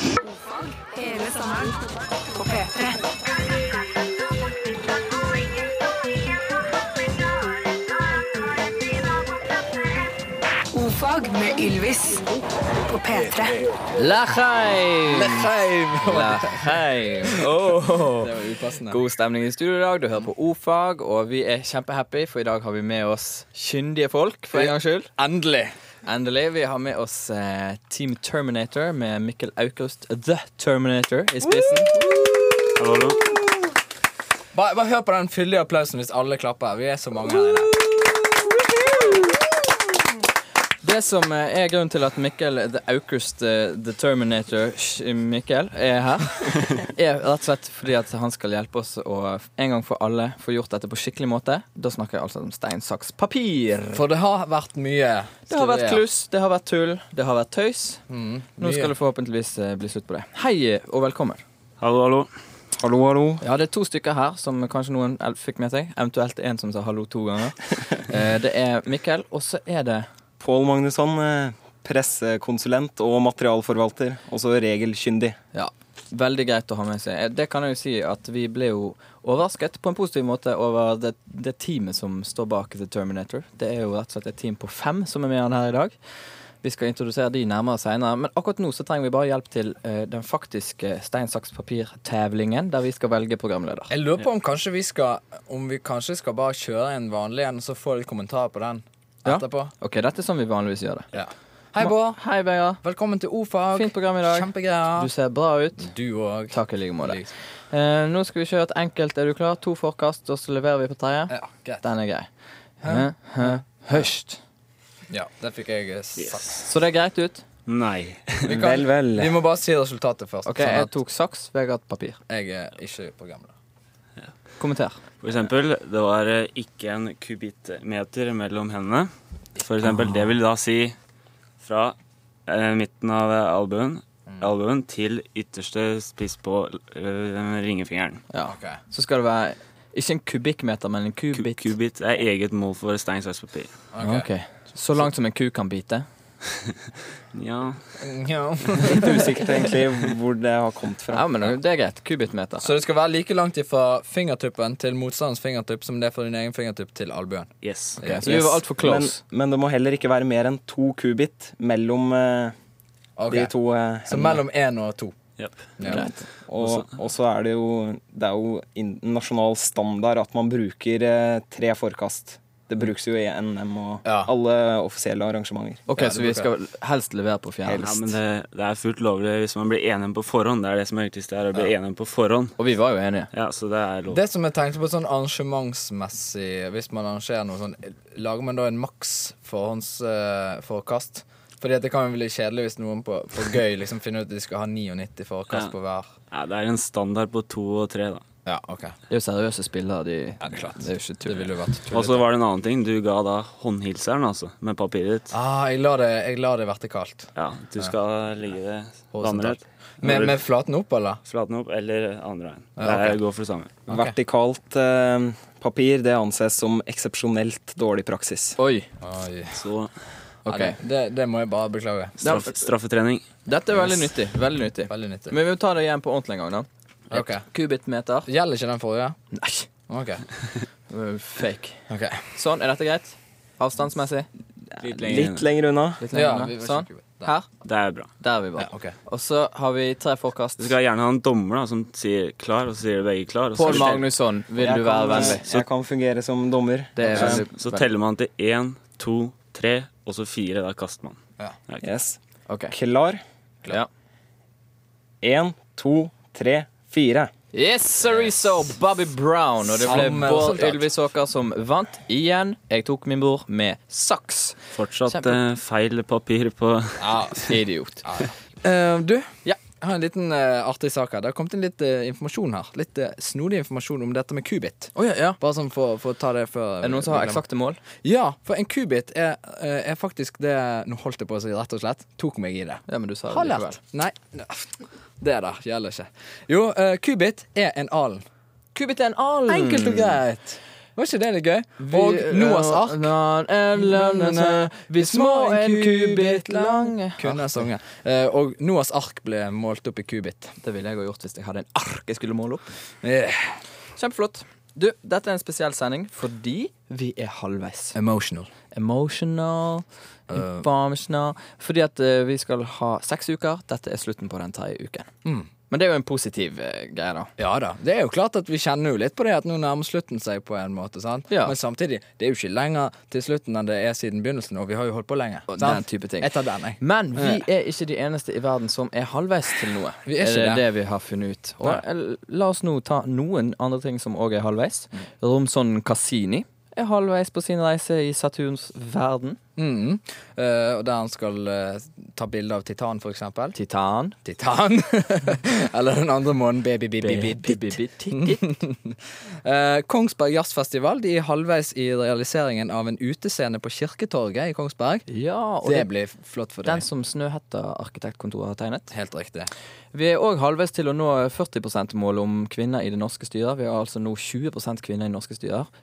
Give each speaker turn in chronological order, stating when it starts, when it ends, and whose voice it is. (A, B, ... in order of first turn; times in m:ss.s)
0:00.2-0:03.0 A
0:10.7-0:12.3 A
0:12.9-0:13.6 A
0:14.0-0:15.5 B
0:15.1-0:19.0 C
0:16.0-0:18.3 B
0:18.9-0:25.1 B
0:24.5-0:25.7 C
0:26.0-0:32.2 B
0:32.8-0:33.2 D
0:34.5-0:37.7 C
0:40.8-0:54.0 B
0:53.9-0:56.0 C
0:55.5-0:58.0 B
0:58.1-0:59.0 C
0:58.6-1:01.4 B
1:01.8-1:02.3 D
1:02.8-1:03.4 E
1:03.4-1:10.1 B
1:10.4-1:15.4 E
1:15.5-1:26.0 B
1:26.6-1:33.9 B
1:33.9-1:39.7 C
1:39.2-1:41.1 B
1:41.1-1:42.2 C
1:41.8-1:42.8 B
1:42.8-1:45.1 C
1:43.7-1:45.9 B
1:45.8-1:47.3 C
1:46.5-1:52.3 B
1:51.3-1:51.8 C
1:52.8-1:54.0 C
1:52.9-1:54.4 B
1:55.1-1:56.5 C
1:56.2-1:56.6 D
1:56.6-1:57.4 B
1:57.7-1:58.5 D
1:58.4-1:59.4 E
1:58.5-2:00.9 C
2:00.4-2:02.2 B
2:02.3-2:03.5 C
2:04.6-2:05.0 B
2:05.2-2:11.0 D
2:11.6-2:12.0 D
2:12.5-2:18.2 D
2:18.3-2:21.7 B
2:18.5-2:18.8 C
2:21.3-2:23.7 D
2:23.9-2:24.3 C
2:24.0-2:26.0 B
2:27.3-2:27.8 D
2:28.0-2:29.2 C
2:28.8-2:31.5 E
2:31.1-2:32.7 B
2:32.6-2:37.5 C
2:37.6-2:38.0 D
2:38.0-2:38.4 C
2:38.0-2:39.2 B
2:38.3-2:42.5 E
2:43.2-2:43.5 C
2:43.3-2:44.4 E
2:44.0-2:45.1 C
2:45.8-2:46.1 C
2:45.8-2:46.2 B
2:46.5-2:55.8 E
2:46.6-2:46.8 D
2:54.0-2:54.3 C
2:55.9-2:57.9 B
2:55.9-2:56.5 C
2:57.7-2:58.1 E
2:57.8-3:02.6 D
3:02.6-3:03.3 B
3:03.3-3:04.2 D
3:04.1-3:16.1 C
3:16.3-3:18.2 D
3:18.4-3:18.9 C
3:19.1-3:21.5 B
3:20.4-3:22.2 C
3:21.9-3:25.3 D
3:25.3-3:27.9 C
3:27.4-3:30.4 D
3:29.1-3:31.2 C
3:31.2-3:33.8 D
3:32.8-3:33.1 C
3:33.9-3:38.6 E
3:33.9-3:34.1 C
3:38.6-3:38.9 B
3:39.0-3:39.6 C
3:39.5-3:39.9 D
3:40.4-3:40.8 B
3:40.5-3:42.2 C
3:42.2-3:43.2 D
3:42.2-3:42.5 B
3:43.4-3:48.3 B
3:43.8-3:44.1 C
3:44.9-3:45.4 C
3:47.1-3:47.4 C
3:48.3-3:49.2 C
3:49.3-3:49.7 B
3:49.9-3:50.2 C
3:50.9-3:51.8 B
3:51.9-3:52.2 C
3:52.3-3:54.3 B
3:54.8-3:55.3 B
3:55.0-3:56.0 E
3:55.0-3:55.4 D
3:56.0-3:57.5 B
3:56.1-3:57.3 C
3:57.6-3:58.1 D
3:58.2-4:00.7 B
3:58.6-3:58.9 C
4:00.6-4:04.1 D
4:03.5-4:05.4 B
4:04.6-4:07.4 E
4:07.0-4:07.8 B
4:07.0-4:07.4 C
4:07.2-4:11.8 D
4:11.8-4:12.2 E
4:12.5-4:12.7 B
4:12.7-4:13.2 E
4:15.2-4:17.3 E
4:17.5-4:24.6 B
4:19.6-4:20.9 C
4:24.8-4:27.4 D
4:25.1-4:25.4 B
4:27.0-4:27.4 C
4:27.5-4:28.0 B
4:28.0-4:37.4 C
4:34.9-4:35.4 B
4:36.8-4:37.8 B
4:38.0-4:48.2 C
4:42.9-4:43.8 B
4:48.8-4:50.2 B
4:49.5-4:53.1 C
4:51.8-4:57.5 B
4:53.8-5:00.5 C
5:00.6-5:02.7 B
5:03.0-5:03.6 C
5:04.0-5:08.0 B
5:07.9-5:08.5 C
5:08.7-5:15.1 B
5:10.3-5:10.7 C
5:15.2-5:15.5 C
5:15.7-5:17.3 B
5:17.4-5:27.4 C
5:21.3-5:21.6 B
5:25.5-5:39.4 B
5:30.1-5:30.6 C
5:39.6-5:43.6 C
5:43.6-5:44.2 B
5:44.2-5:55.0 C
5:47.0-5:48.5 B
5:55.1-5:55.9 B
5:55.6-5:56.8 C
5:56.6-5:58.9 B
5:58.9-5:59.5 C
5:59.9-6:05.7 B